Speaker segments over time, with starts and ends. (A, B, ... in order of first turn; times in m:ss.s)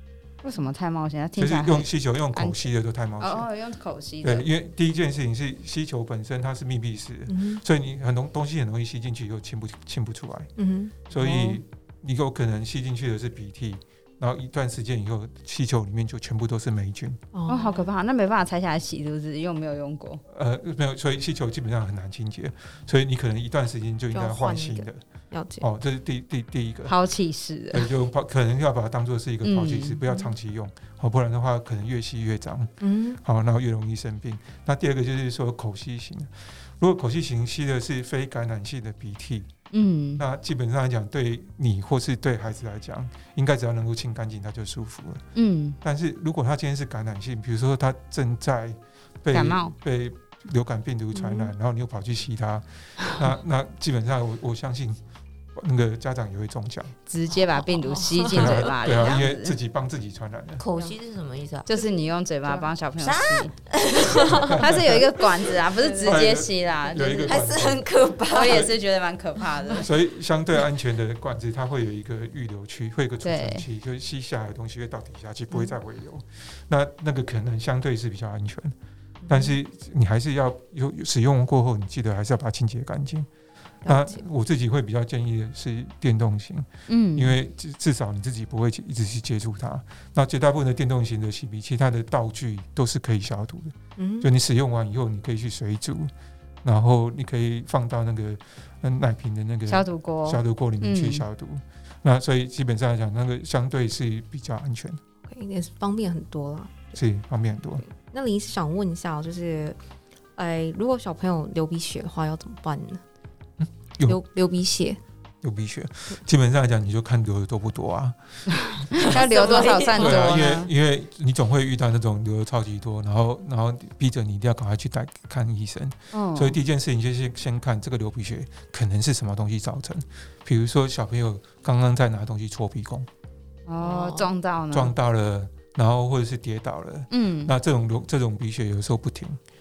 0:00.4-0:02.7 A
0:01.4-0:03.5 B
0:03.2-0:04.5 A
0:04.2-0:10.5 B
0:07.3-0:07.6 C
0:10.6-0:11.6 C
0:11.1-0:17.2 B
0:17.3-0:17.9 C
0:17.5-0:20.2 A
0:20.3-0:25.0 B
0:24.1-0:25.7 C
0:25.6-0:26.9 B
0:26.9-0:27.9 A
0:27.7-0:39.5 B
0:29.4-0:30.0 A
0:32.8-0:33.2 C
0:39.7-0:40.2 A
0:40.2-0:45.2 B
0:45.4-0:45.8 A
0:45.8-0:55.0 B
0:49.3-0:49.8 A
0:51.1-0:51.5 C
0:55.6-0:57.0 B
0:57.1-0:59.5 A
0:57.5-0:58.7 C
0:58.3-1:00.6 B
1:00.6-1:01.7 D
1:01.7-1:03.6 A
1:02.5-1:02.7 C
1:03.0-1:04.5 D
1:04.2-1:05.2 B
1:04.5-1:07.5 A
1:05.8-1:06.2 C
1:06.0-1:08.7 B
1:07.3-1:08.7 D
1:08.3-1:09.9 A
1:09.7-1:18.8 B
1:13.2-1:13.6 A
1:19.2-1:19.6 C
1:19.3-1:23.3 B
1:23.8-1:24.2 C
1:23.9-1:36.1 B
1:26.9-1:27.4 A
1:34.0-1:34.3 C
1:36.6-1:45.0 B
1:39.7-1:41.2 A
1:45.3-1:47.0 C
1:47.0-1:47.8 B
1:47.8-1:49.8 C
1:50.4-1:53.0 C
1:53.6-1:54.2 B
1:54.1-1:55.0 C
1:55.4-2:13.1 B
1:58.6-2:00.7 A
1:59.2-2:00.2 D
1:59.4-2:00.4 C
2:06.1-2:06.6 A
2:13.7-2:14.9 A
2:14.7-2:19.4 B
2:17.1-2:17.5 A